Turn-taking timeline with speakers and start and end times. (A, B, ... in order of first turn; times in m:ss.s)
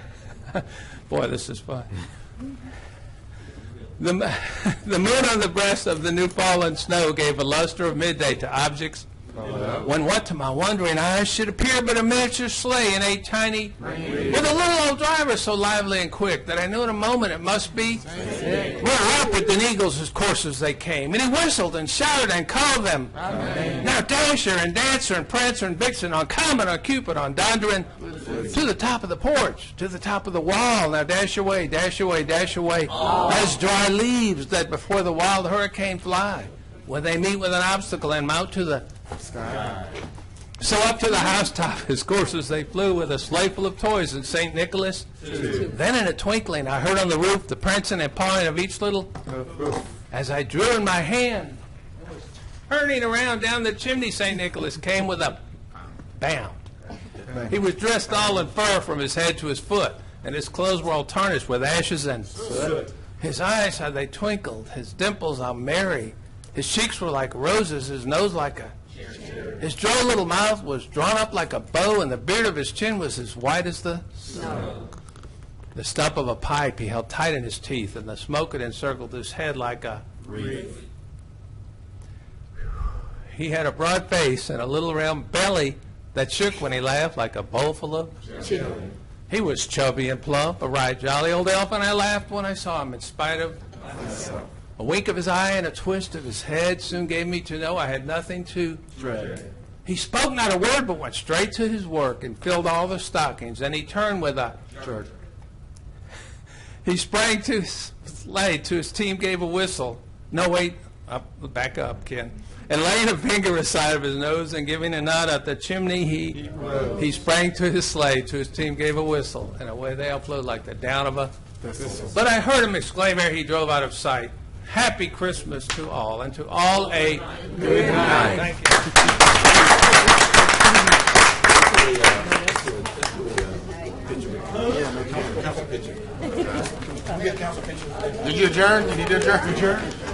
0:00.5-0:02.0 A
0:04.0-0:09.1 A
0:09.6-0:38.8 A
0:39.4-0:39.7 B
0:40.6-0:49.2 A
0:50.1-0:51.6 A
0:52.7-0:55.4 A
0:56.2-0:56.6 A
0:57.3-1:08.7 A
1:09.6-1:14.7 A
1:15.8-1:20.6 A
1:23.3-1:28.2 A
1:29.3-1:33.6 A
1:34.8-1:38.8 A
1:39.0-1:39.4 B
1:39.8-1:44.8 A
1:44.8-1:45.1 B
1:46.8-2:01.3 A
2:01.9-2:09.0 A
2:14.7-2:15.7 B
2:18.1-2:19.9 B